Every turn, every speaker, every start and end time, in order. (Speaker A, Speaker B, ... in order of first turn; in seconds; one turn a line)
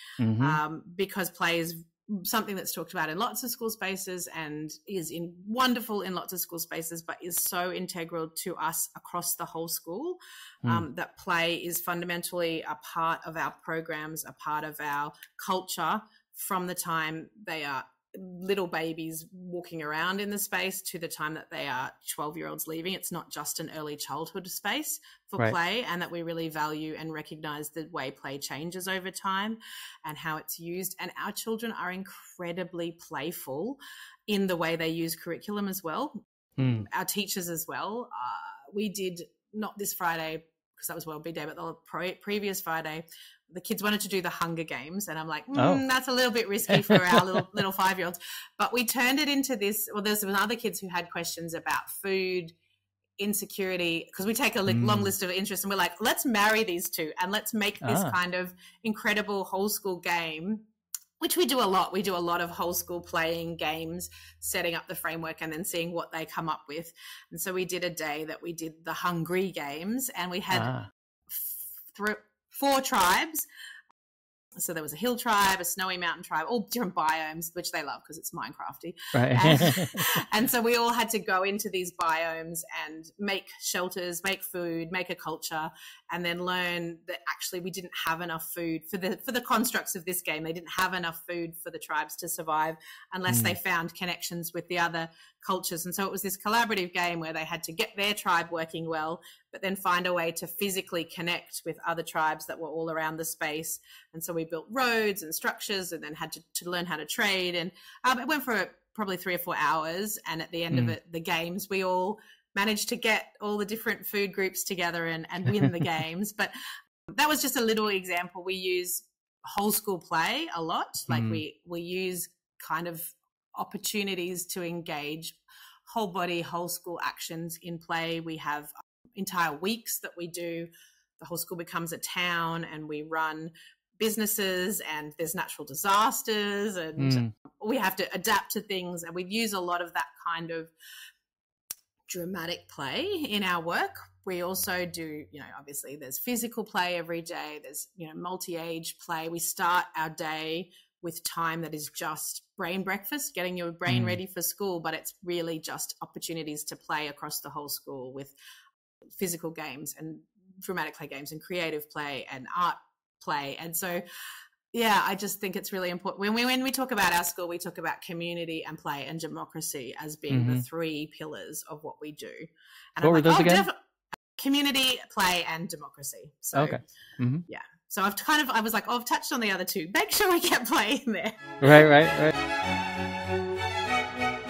Speaker A: 0.2-0.6
Speaker B: 0.4-33.8
Speaker B: 34.3-52.5
Speaker A: 36.6-36.9
Speaker A: 45.5-45.8
Speaker A: 46.7-47.5
Speaker B: 53.2-60.6
Speaker A: 54.7-55.1
Speaker A: 57.8-58.2
Speaker B: 61.2-70.7
Speaker A: 70.5-70.9
Speaker B: 71.3-73.4
Speaker B: 74.6-116.5
Speaker A: 79.1-80.1
Speaker A: 93.3-93.5
Speaker B: 117.2-125.3
Speaker A: 121.1-121.4
Speaker B: 125.9-130.7
Speaker B: 131.2-140.7
Speaker A: 137.0-137.3
Speaker B: 142.1-158.3
Speaker A: 153.8-154.2
Speaker B: 159.2-164.0
Speaker B: 164.7-173.7
Speaker A: 170.3-170.6
Speaker A: 173.0-173.7
Speaker B: 174.4-176.8
Speaker A: 176.5-177.4
Speaker B: 177.5-181.5
Speaker A: 181.6-182.3